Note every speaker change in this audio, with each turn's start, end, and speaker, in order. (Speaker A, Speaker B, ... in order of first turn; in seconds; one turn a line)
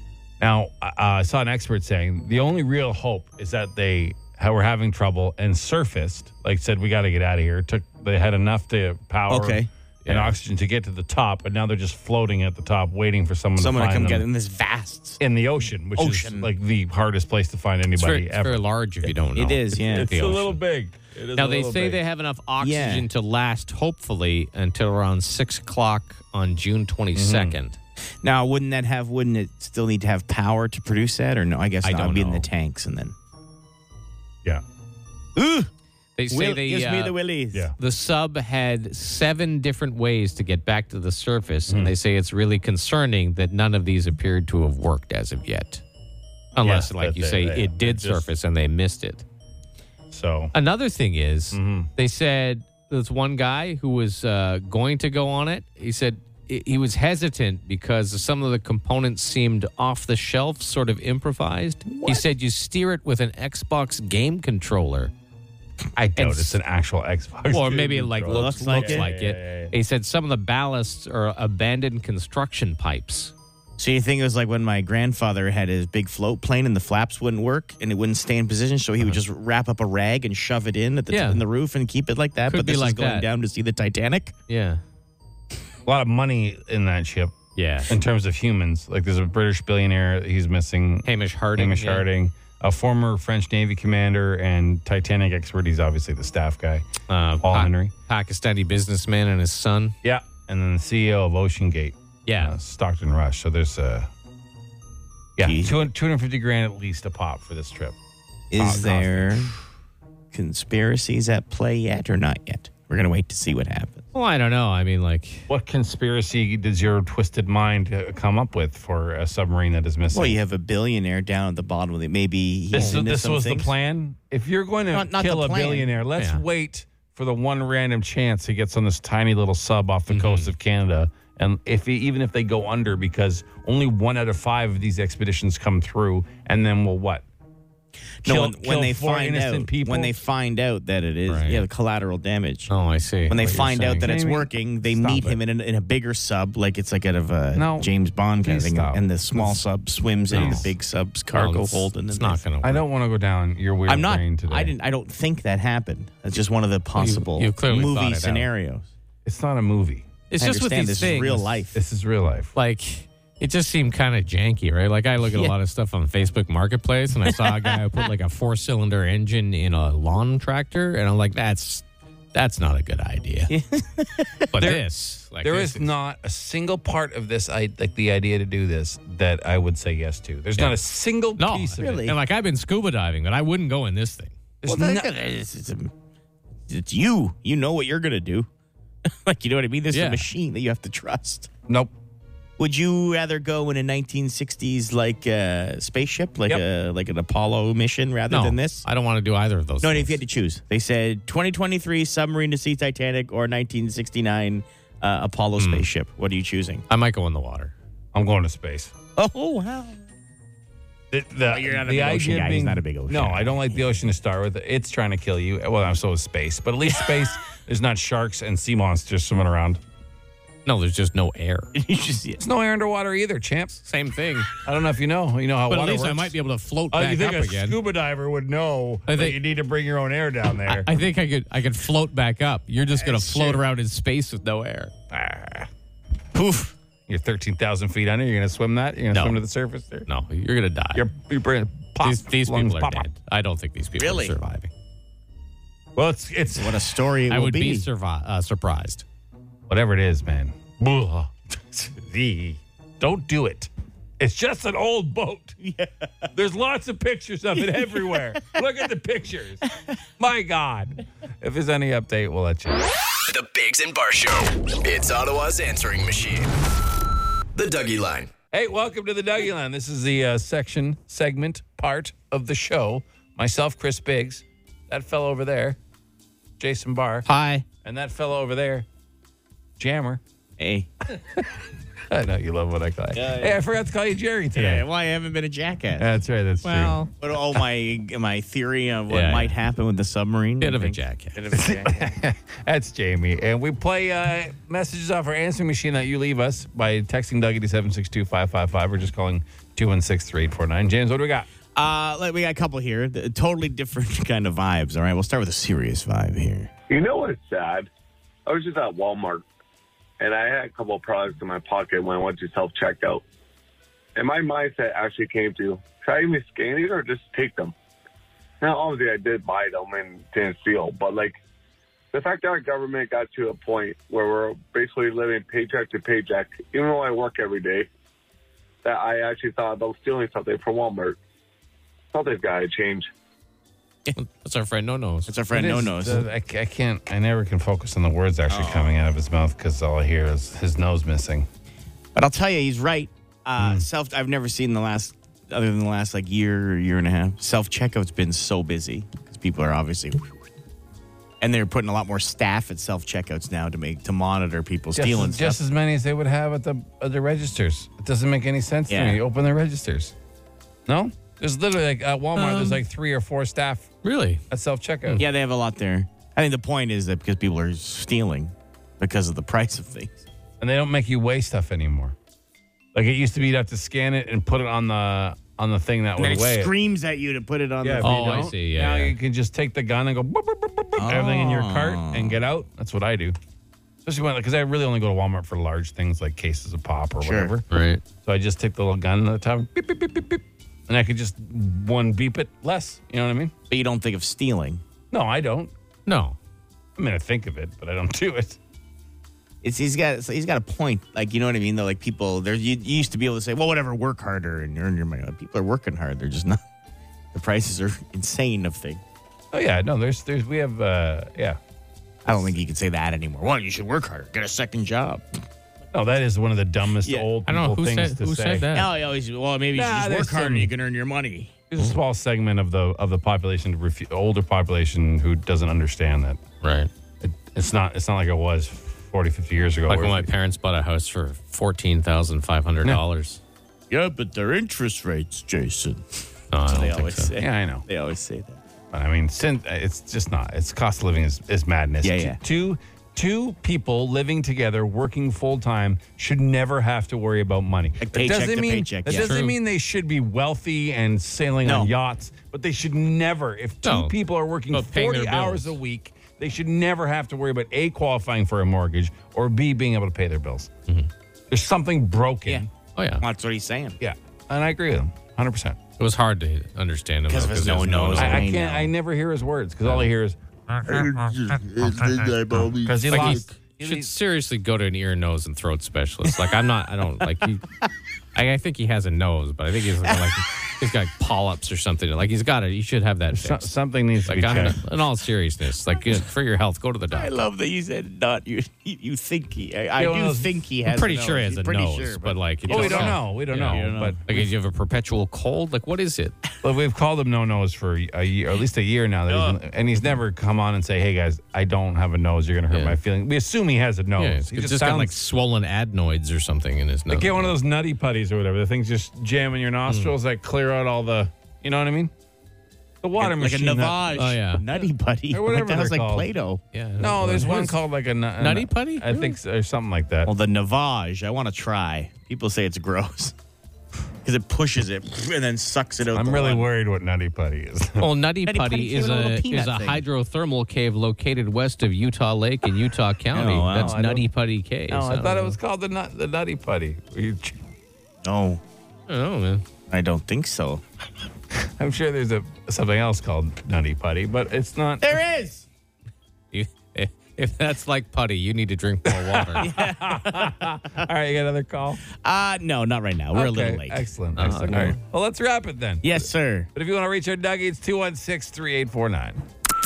Speaker A: 0.4-14.2
Speaker B: 9.3-9.7
Speaker C: 10.0-10.4
Speaker B: 13.6-15.2
Speaker A: 15.2-18.7
Speaker B: 16.0-16.5
Speaker C: 18.0-20.6
Speaker B: 19.4-20.1
Speaker A: 19.7-22.0
Speaker C: 21.3-27.8
Speaker B: 22.6-23.1
Speaker A: 27.1-27.6
Speaker B: 28.2-33.1
Speaker C: 31.8-32.5
Speaker B: 35.4-35.7
Speaker C: 36.2-37.2
Speaker B: 36.3-37.7
Speaker C: 37.8-45.8
Speaker A: 41.7-41.9
Speaker C: 46.5-49.2
Speaker A: 46.6-48.3
Speaker A: 50.1-50.5
Speaker C: 50.5-65.1
Speaker A: 51.5-51.9
Speaker B: 61.9-62.3
Speaker A: 66.0-69.7
Speaker C: 66.2-66.6
Speaker C: 67.5-73.3
Speaker B: 68.3-69.1
Speaker B: 73.8-84.3
Speaker C: 81.1-81.4
Speaker C: 82.5-83.3
Speaker C: 84.5-84.8
Speaker A: 85.8-87.4
Speaker C: 87.6-88.0
Speaker A: 87.9-96.9
Speaker C: 91.0-92.0
Speaker C: 97.1-100.0
Speaker A: 97.4-97.9
Speaker A: 100.0-104.1
Speaker C: 102.3-102.5
Speaker A: 105.4-108.0
Speaker B: 105.4-105.8
Speaker B: 108.5-109.6
Speaker A: 108.6-109.5
Speaker B: 110.3-114.0
Speaker C: 114.1-115.5
Speaker A: 115.5-120.4
Speaker B: 120.1-123.7
Speaker A: 122.7-137.2
Speaker B: 124.9-125.9
Speaker C: 126.2-126.4
Speaker C: 130.1-130.5
Speaker B: 138.2-142.7
Speaker A: 138.2-140.2
Speaker C: 141.3-141.7
Speaker C: 142.7-144.1
Speaker B: 143.3-152.4
Speaker A: 144.0-145.4
Speaker A: 147.5-149.1
Speaker A: 150.3-150.7
Speaker C: 150.3-150.7
Speaker C: 151.3-152.8
Speaker A: 152.6-154.7
Speaker B: 153.9-158.9
Speaker C: 157.0-158.5
Speaker A: 159.2-160.1
Speaker C: 160.3-161.6
Speaker B: 160.4-161.8
Speaker A: 161.7-162.5
Speaker C: 162.6-173.5
Speaker B: 165.2-165.5
Speaker B: 167.2-168.0
Speaker B: 173.5-174.7
Speaker C: 174.5-175.9
Speaker A: 174.6-182.1
Speaker C: 181.4-184.3
Speaker B: 181.8-182.2
Speaker A: 184.6-185.1
Speaker B: 184.6-185.9
Speaker B: 186.7-188.5
Speaker B: 189.1-191.5
Speaker C: 189.9-190.3
Speaker A: 191.7-191.9
Speaker B: 192.6-198.9
Speaker C: 198.3-200.2
Speaker B: 199.8-206.8
Speaker C: 205.6-205.9
Speaker C: 206.9-207.7
Speaker A: 208.1-208.9
Speaker B: 209.2-210.0
Speaker A: 211.1-219.8
Speaker B: 211.5-214.0
Speaker C: 220.7-221.7
Speaker B: 221.7-222.4
Speaker A: 222.4-223.8
Speaker C: 223.8-224.5
Speaker A: 224.6-226.3
Speaker C: 225.7-227.8
Speaker A: 226.9-230.9
Speaker C: 229.1-229.4
Speaker C: 230.7-234.9
Speaker A: 233.1-233.6
Speaker A: 235.1-235.7
Speaker B: 236.3-236.7
Speaker A: 237.1-240.1
Speaker C: 239.1-239.4
Speaker C: 240.1-241.0
Speaker A: 240.9-243.1
Speaker C: 242.0-244.7
Speaker B: 244.0-244.4
Speaker A: 246.0-246.9
Speaker B: 246.6-247.9
Speaker C: 247.3-249.0
Speaker A: 249.7-255.6
Speaker B: 255.6-256.3
Speaker A: 256.4-259.6
Speaker B: 257.6-258.6
Speaker A: 260.2-262.8
Speaker D: 263.3-266.6
Speaker D: 267.5-268.3
Speaker A: 268.5-275.8
Speaker A: 276.6-277.3
Speaker C: 277.3-277.7
Speaker A: 277.8-278.9
Speaker A: 279.8-280.2
Speaker B: 280.6-280.9
Speaker A: 281.2-281.5
Speaker A: 282.1-284.8
Speaker B: 283.1-283.6
Speaker B: 284.5-286.2
Speaker A: 286.0-287.0
Speaker C: 286.6-287.1
Speaker B: 287.2-292.2
Speaker C: 289.1-289.6
Speaker C: 290.6-291.4
Speaker A: 291.5-301.5
Speaker B: 301.8-306.7
Speaker E: 306.9-307.9
Speaker E: 308.5-309.5
Speaker E: 310.2-313.2
Speaker E: 314.2-317.7
Speaker E: 318.6-321.4
Speaker E: 322.1-327.9
Speaker E: 328.8-331.2
Speaker E: 332.1-333.1
Speaker C: 334.1-335.3
Speaker B: 335.3-336.3
Speaker A: 335.5-341.5
Speaker B: 338.5-339.0
Speaker B: 342.1-350.4
Speaker A: 343.6-343.9
Speaker B: 351.4-355.6
Speaker A: 355.0-360.1
Speaker B: 358.9-359.2
Speaker A: 360.9-363.9
Speaker C: 362.4-362.8
Speaker C: 364.0-364.4
Speaker A: 364.5-365.2
Speaker B: 365.1-370.2
Speaker A: 370.6-372.1
Speaker A: 372.9-376.7
Speaker B: 376.2-378.5
Speaker A: 377.8-383.4
Speaker C: 378.0-379.2
Speaker B: 381.0-382.4
Speaker A: 384.1-387.7
Speaker B: 387.2-387.5
Speaker C: 387.7-388.0
Speaker A: 388.2-393.5
Speaker B: 393.7-394.8
Speaker A: 395.1-395.7
Speaker C: 396.1-396.4
Speaker A: 397.0-398.6
Speaker B: 399.6-406.6
Speaker B: 407.3-409.0
Speaker A: 409.5-411.6
Speaker B: 412.2-415.2
Speaker A: 415.9-418.7
Speaker B: 417.0-417.3
Speaker C: 417.5-418.9
Speaker B: 418.7-421.6
Speaker A: 419.7-420.7
Speaker A: 421.7-426.4
Speaker C: 426.6-426.9
Speaker A: 427.2-430.3
Speaker C: 429.9-433.4
Speaker B: 433.9-436.1
Speaker C: 436.5-437.3
Speaker B: 436.6-438.6
Speaker A: 437.4-437.9
Speaker A: 438.9-460.7
Speaker B: 442.0-442.4
Speaker B: 448.0-449.4
Speaker C: 449.1-449.6
Speaker B: 451.6-451.9
Speaker C: 453.8-454.1
Speaker C: 454.7-455.8
Speaker A: 461.5-462.7
Speaker C: 463.0-463.2
Speaker B: 463.2-464.0
Speaker A: 464.0-465.8
Speaker C: 466.0-468.5
Speaker B: 467.3-468.9
Speaker A: 468.2-470.4
Speaker B: 470.9-473.3
Speaker A: 472.8-474.1
Speaker C: 473.1-477.6
Speaker C: 478.4-483.7
Speaker B: 480.0-480.4
Speaker A: 483.3-484.8
Speaker C: 484.3-487.4
Speaker B: 487.1-494.4
Speaker A: 490.0-490.5
Speaker C: 490.9-496.4
Speaker A: 492.7-494.4
Speaker A: 496.6-505.2
Speaker B: 499.3-499.6
Speaker C: 502.7-503.0
Speaker C: 504.2-507.6
Speaker A: 507.1-512.1
Speaker C: 509.9-510.1
Speaker A: 513.0-514.2
Speaker B: 513.2-516.6
Speaker C: 514.1-514.6
Speaker A: 515.3-516.3
Speaker C: 516.7-517.8
Speaker A: 517.0-520.3
Speaker B: 517.3-517.6
Speaker C: 518.4-519.4
Speaker B: 520.2-523.4
Speaker B: 524.2-526.7
Speaker A: 526.1-528.1
Speaker C: 528.0-535.5
Speaker B: 528.5-530.0
Speaker B: 533.3-534.2
Speaker A: 533.7-534.2
Speaker B: 534.9-535.5
Speaker A: 534.9-537.6
Speaker B: 538.2-538.6
Speaker C: 539.1-539.6
Speaker B: 539.9-540.8
Speaker A: 541.8-545.2
Speaker B: 545.0-545.7
Speaker C: 546.5-549.7
Speaker A: 549.1-552.0
Speaker B: 549.6-551.0
Speaker B: 552.1-555.0
Speaker A: 553.3-559.4
Speaker C: 554.4-555.0
Speaker B: 556.0-556.7